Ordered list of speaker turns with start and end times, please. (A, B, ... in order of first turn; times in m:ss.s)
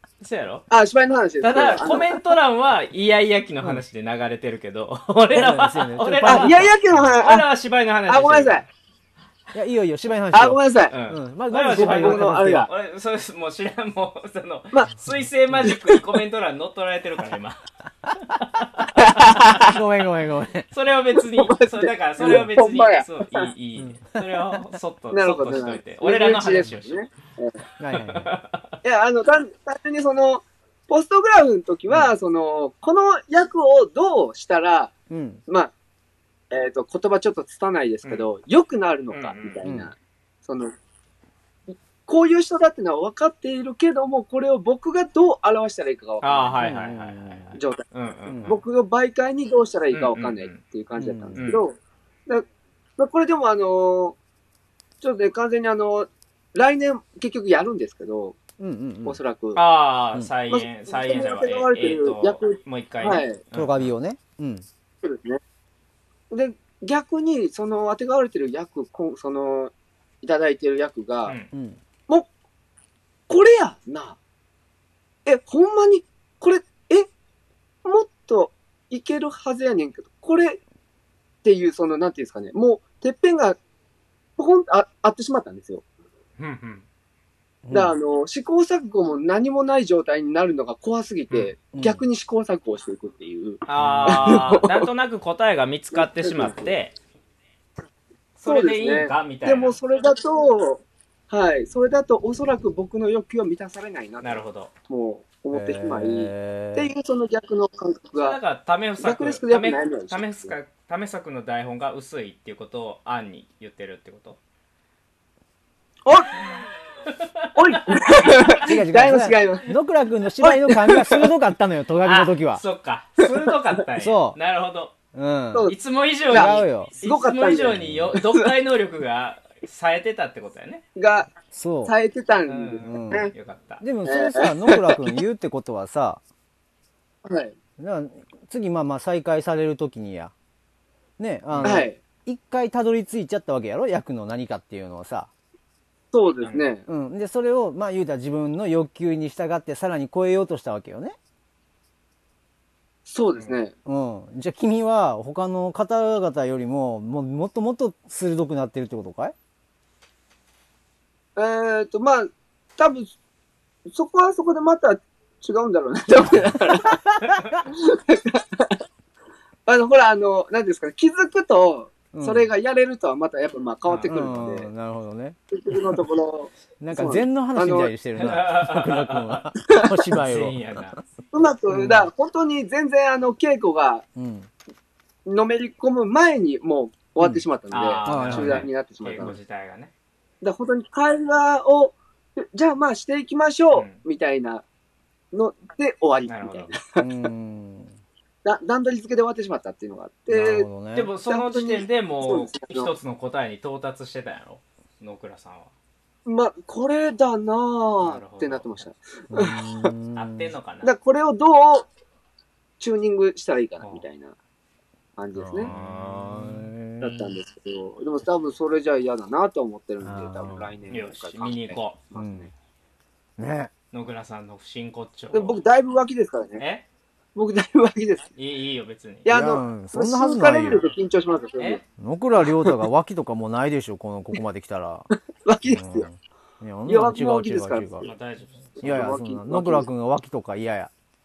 0:00.2-0:00.7 A
0:00.7-0:02.3 B
0:01.4-0:08.7 A
0:05.3-0:06.8 C
0:06.2-0:07.5 B
0:08.1-0:08.6 B
0:09.5-0:12.7 C
0:10.3-0:10.9 B
0:10.9-0:17.6 A
0:11.8-0:12.7 B
0:15.6-0:16.0 B
0:18.2-0:19.7 A
0:19.0-0:19.7 B
0:19.6-0:20.7 C
0:20.7-0:27.1 A
0:21.3-0:23.5 B
0:23.8-0:24.6 C
0:25.1-0:27.6 B
0:27.8-0:28.3 C
0:27.9-0:28.7 A
0:28.8-0:34.9 B
0:35.1-0:35.4 C
0:36.5-0:40.7 B
0:39.1-0:39.6 A
0:39.6-0:39.9 C
0:41.7-0:46.6 B
0:46.2-0:48.6 A
0:46.6-0:47.5 C
0:47.6-0:47.8 B
0:48.3-0:48.6 C
0:48.5-0:51.8 B
0:49.9-0:50.6 A
0:51.0-0:51.4 C
0:51.4-0:51.6 A
0:53.0-0:54.2 B
0:55.0-0:58.4 B
0:58.6-0:59.2 C
0:59.0-0:59.6 B
0:59.6-1:03.9 A
1:00.5-1:03.4 B
1:03.5-1:04.7 C
1:05.0-1:05.4 B
1:06.3-1:11.4 B
1:11.3-1:11.5 A
1:11.5-1:11.8 C
1:13.3-1:14.2 B
1:15.3-1:17.1 B
1:17.8-1:20.6 B
1:21.4-1:23.6 B
1:24.4-1:25.8 B
1:26.4-1:26.9 A
1:27.6-1:28.0 C
1:27.7-1:34.9 B
1:31.7-1:32.0 C
1:33.7-1:37.0 A
1:33.8-1:34.4 C
1:35.9-1:36.7 B
1:38.4-1:39.8 A
1:38.4-1:48.4 B
1:44.2-1:44.7 A
1:45.5-1:46.9 C
1:48.2-1:54.4 A
1:49.0-1:50.5 B
1:56.0-1:56.4 B
1:57.1-1:58.0 A
1:57.6-1:59.7 B
1:58.6-2:02.6 C
2:00.4-2:01.3 B
2:02.0-2:04.9 A
2:04.0-2:04.4 C
2:05.1-2:05.7 C
2:05.7-2:10.8 A
2:06.3-2:06.9 C
2:06.3-2:08.5 B
2:07.7-2:08.1 C
2:11.0-2:11.3 B
2:11.5-2:12.0 C
2:11.9-2:13.3 B
2:12.5-2:13.8 A
2:12.8-2:16.2 C
2:14.1-2:15.1 B
2:17.2-2:17.6 B
2:17.8-2:20.3 C
2:21.2-2:25.3 C
2:21.5-2:21.9 A
2:21.6-2:22.0 B
2:26.1-2:26.8 B
2:26.9-2:31.2 C
2:33.1-2:33.7 B
2:33.9-2:39.3 C
2:41.4-2:43.1 B
2:43.9-2:47.0 B
2:46.9-2:47.6 C
2:47.7-2:48.8 B
2:49.7-2:54.7 B
2:52.1-2:52.5 C
2:53.9-2:54.1 A
2:54.1-2:56.0 C
2:55.5-2:57.9 B
2:56.8-3:01.0 C
2:58.2-2:59.5 A
2:59.6-3:00.0 B
3:00.2-3:01.0 A
3:01.3-3:04.0 B
3:01.7-3:02.1 C
3:04.2-3:04.5 C
3:05.3-3:09.4 B
3:07.7-3:09.9 A
3:08.0-3:08.7 C
3:10.4-3:14.6 B
3:13.7-3:14.0 A
3:15.3-3:17.1 B
3:16.3-3:16.8 A
3:17.0-3:18.0 C
3:18.4-3:20.7 B
3:20.3-3:21.1 C
3:20.9-3:25.7 A
3:21.3-3:22.9 B
3:26.2-3:29.9 B
3:28.0-3:28.9 A
3:29.3-3:30.5 C
3:30.2-3:31.0 A
3:30.8-3:31.9 B
3:32.8-3:34.4 B
3:33.8-3:34.1 A
3:35.2-3:35.7 B
3:35.4-3:37.3 C
3:35.6-3:36.7 A
3:37.0-3:42.5 B
3:40.0-3:40.7 C
3:40.9-3:42.0 A
3:42.2-3:42.5 C
3:43.4-3:43.7 C
3:43.9-3:45.6 A
3:45.3-3:46.6 B
3:46.6-3:46.8 A
3:47.4-3:48.3 B
3:48.4-3:49.3 A
3:49.2-3:51.8 B
3:49.3-3:50.8 C
3:52.0-3:55.1 C
3:52.4-3:52.8 B
3:55.5-3:56.0 B
3:55.6-3:58.1 C
3:56.9-3:58.1 B
3:58.0-3:58.8 A
3:58.8-3:59.9 B
3:58.8-4:00.9 C